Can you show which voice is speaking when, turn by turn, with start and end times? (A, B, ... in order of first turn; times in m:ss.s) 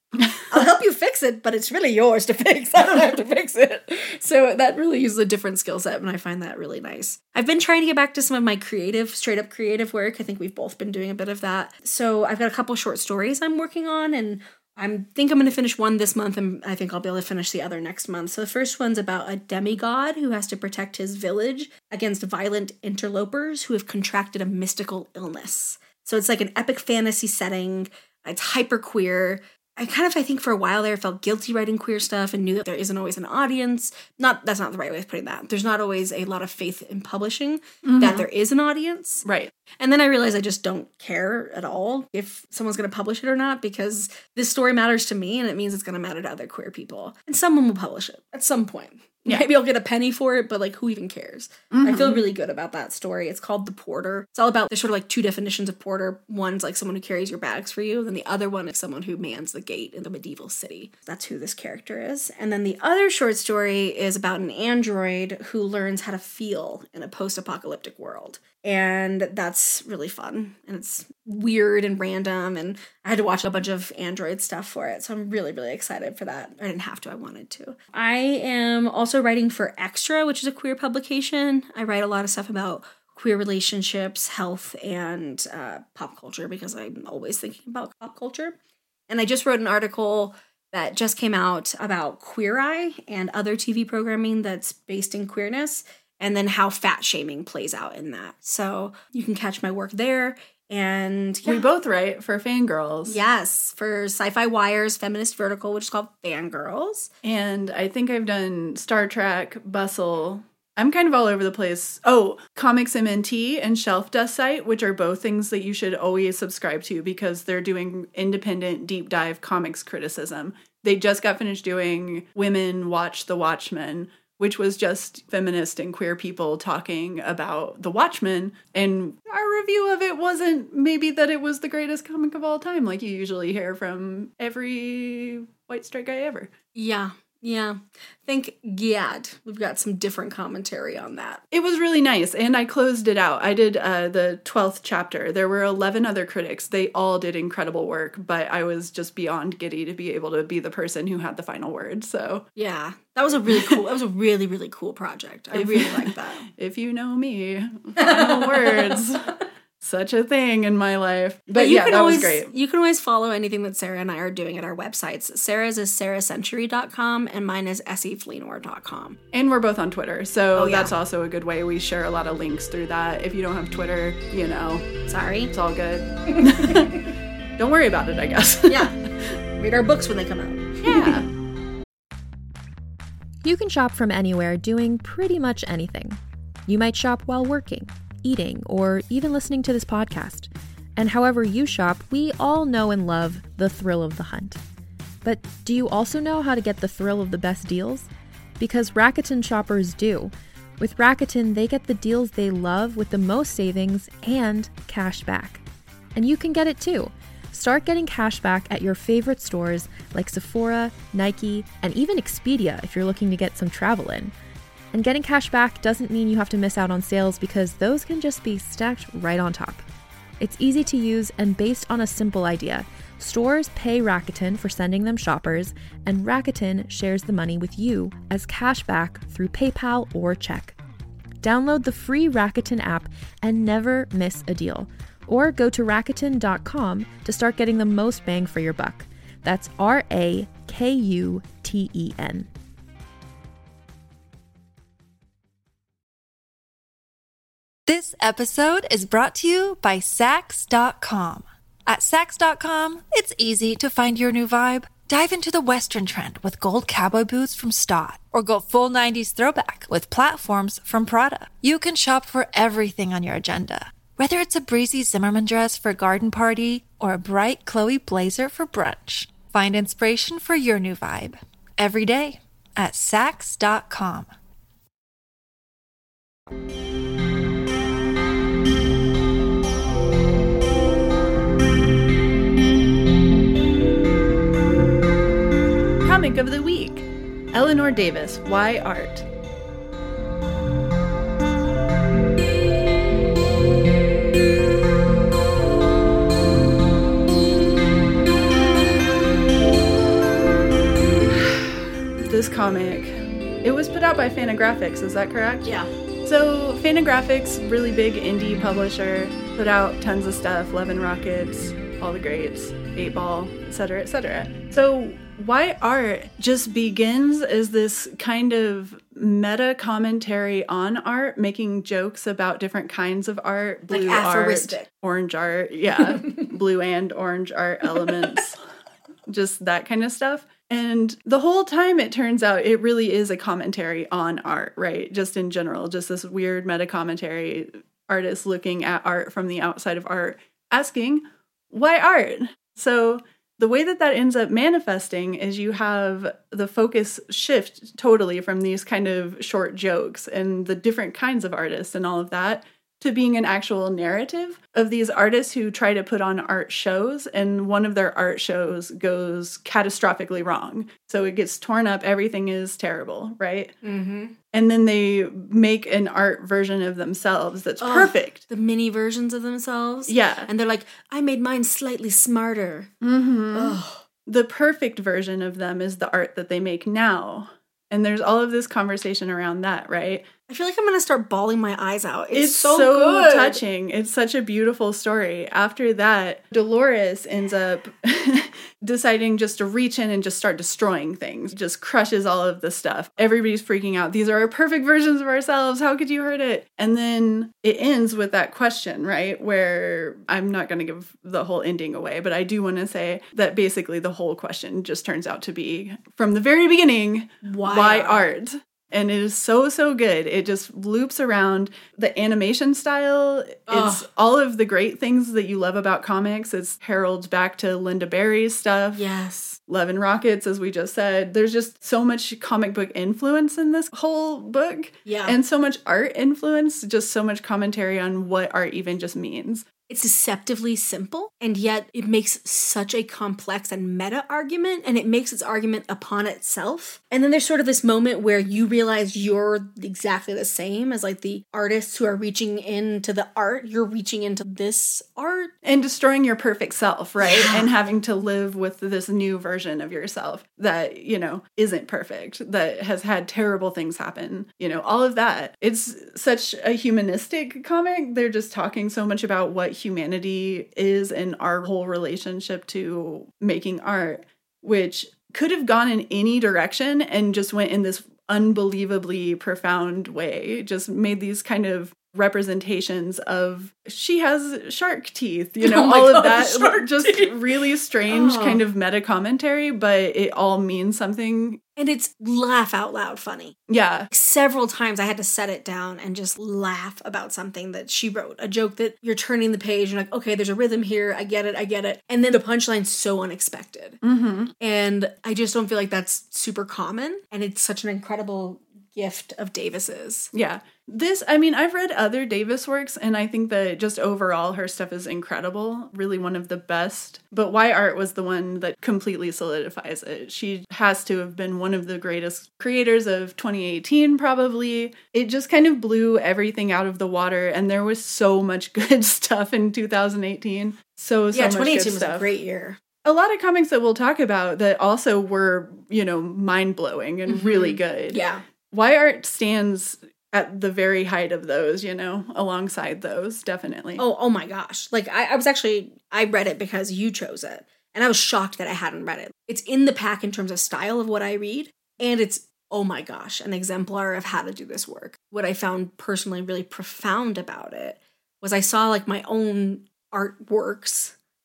0:00.4-0:39.2 A
0:37.8-0:38.3 B
0:39.2-0:39.5 B
0:39.8-1:28.6 A
0:51.7-0:52.2 B
1:29.1-1:41.6 A
1:41.4-1:43.2 B
1:43.1-1:47.1 A
1:47.2-2:16.5 B
2:16.7-2:21.4 A
2:21.5-2:32.4 B
2:32.6-2:36.5 A
2:33.5-2:33.8 B
2:35.5-2:42.5 B
2:38.0-2:39.1 A
2:41.5-2:49.2 A
2:49.3-2:54.9 B
2:50.6-2:50.9 A
2:55.1-2:55.5 A
2:55.5-2:57.0 B
2:56.3-2:56.9 A
2:57.6-2:58.9 B
2:58.7-2:58.9 A
2:59.6-3:01.2 A
3:00.8-3:01.3 B
3:03.4-3:14.6 C
3:15.2-3:18.1 C
3:18.6-3:25.6 C
3:26.1-3:34.3 C
3:34.9-3:39.8 C
3:40.4-3:50.8 C
3:51.4-4:02.5 C
4:07.9-4:34.3 D
4:46.0-4:49.2 B
5:01.4-5:28.6 B
5:23.9-5:24.9 A
5:29.3-6:03.7 B
6:03.8-6:04.4 A
6:04.5-6:08.4 B
6:07.8-6:12.9 A
6:10.1-6:10.5 B
6:13.0-6:20.3 B
6:13.5-6:14.0 A
6:20.5-6:23.6 A
6:22.3-6:59.0 B
6:47.4-6:48.2 A
6:53.7-6:54.0 A
6:58.9-6:59.6 A
6:59.7-7:09.6 B
7:05.0-7:05.4 A
7:09.9-7:25.5 A
7:25.6-8:01.6 B
7:27.2-7:27.7 A
7:55.6-7:57.5 A
7:58.1-7:58.6 A
8:01.8-8:03.6 A
8:03.7-8:04.1 B
8:04.1-8:14.0 A
8:14.0-8:14.5 B
8:14.6-8:20.3 A
8:20.3-8:42.3 B
8:41.3-8:42.8 A
8:43.0-8:54.0 B
8:47.3-8:48.4 A
8:54.0-9:11.1 A